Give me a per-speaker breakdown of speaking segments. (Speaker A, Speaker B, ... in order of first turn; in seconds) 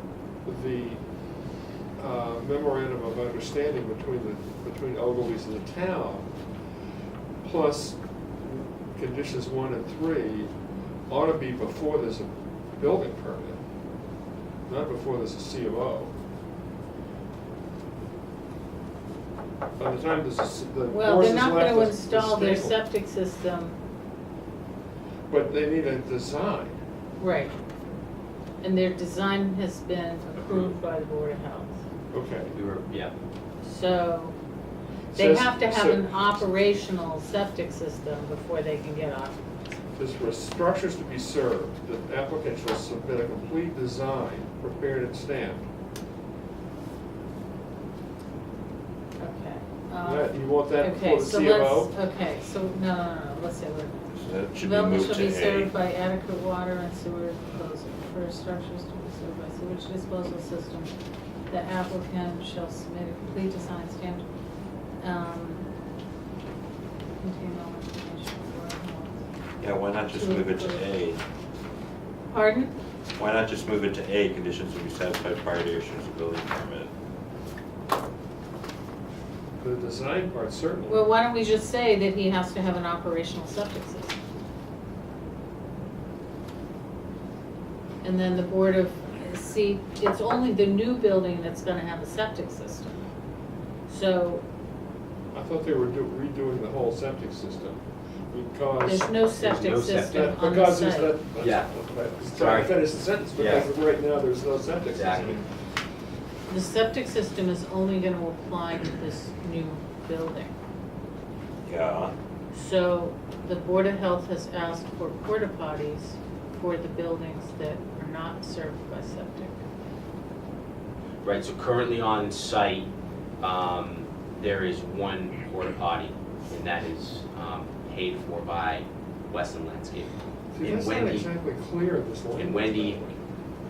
Speaker A: 0.5-1.0, 2.0-6.3, 7.4-10.5, 11.1-13.6, 14.7-16.1, 19.8-22.8, 25.3-26.8, 32.1-32.6, 35.1-36.4, 40.0-45.6, 50.0-51.9, 79.6-81.1, 95.3-105.4, 130.5-133.2
Speaker B: 20.9-23.8, 27.2-27.6, 28.6-31.8, 33.6-34.4, 35.1-39.4, 49.2-60.9, 61.5-64.3, 65.0-65.7, 67.2-69.2, 70.1-70.8, 72.3-72.8, 80.9-84.2, 88.0-93.0, 93.9-94.4, 98.8-101.2, 106.5-110.5, 112.5-119.6
Speaker C: 32.5-33.1, 99.4-100.4, 101.4-101.7, 102.3-102.8, 103.4-103.7, 104.9-105.4, 121.2-122.9, 123.4-131.3, 132.3-133.0
Speaker D: 54.1-55.7, 69.6-71.2, 73.2-76.9, 111.7-112.1